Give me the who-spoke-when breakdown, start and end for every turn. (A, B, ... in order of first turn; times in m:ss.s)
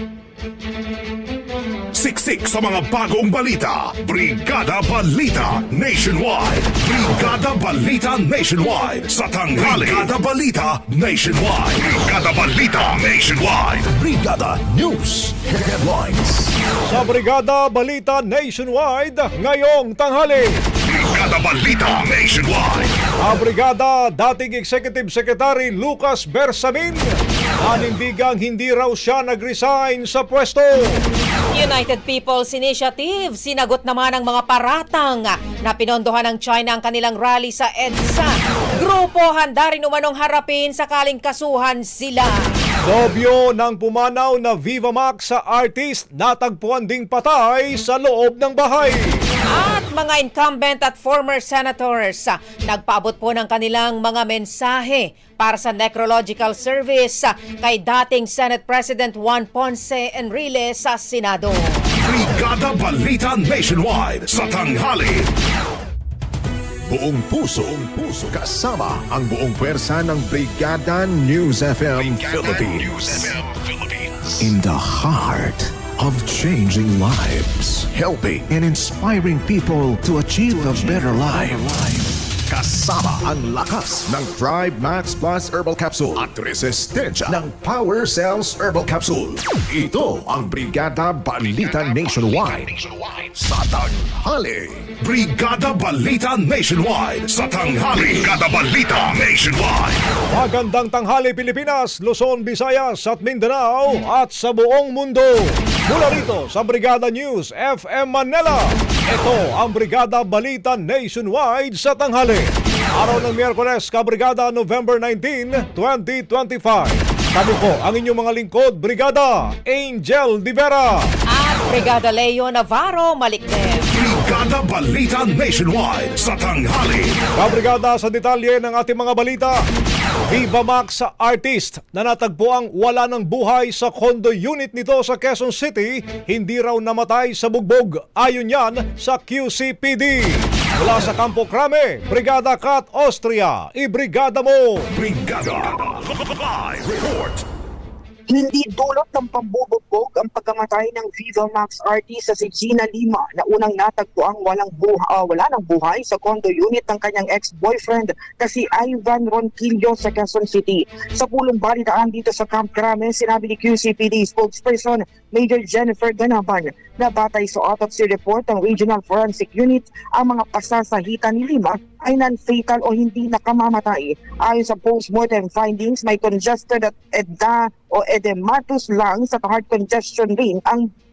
0:01.9-0:13.9 A
0:09.6-0:10.1 B
0:13.9-0:16.5 B
0:16.9-0:20.6 C
0:20.8-0:22.9 A
0:23.2-0:27.1 C
0:27.6-0:31.0 C
0:31.5-0:42.4 D
0:42.8-0:49.2 C
0:49.5-1:01.8 D
1:02.0-1:05.3 A
1:06.9-1:34.9 B
1:35.0-1:40.0 A
1:40.3-2:01.1 C
2:01.3-2:03.8 D
2:03.9-2:07.2 A
2:07.4-2:09.6 C
2:10.3-2:24.9 C
2:24.9-2:27.4 A
2:28.3-3:00.9 E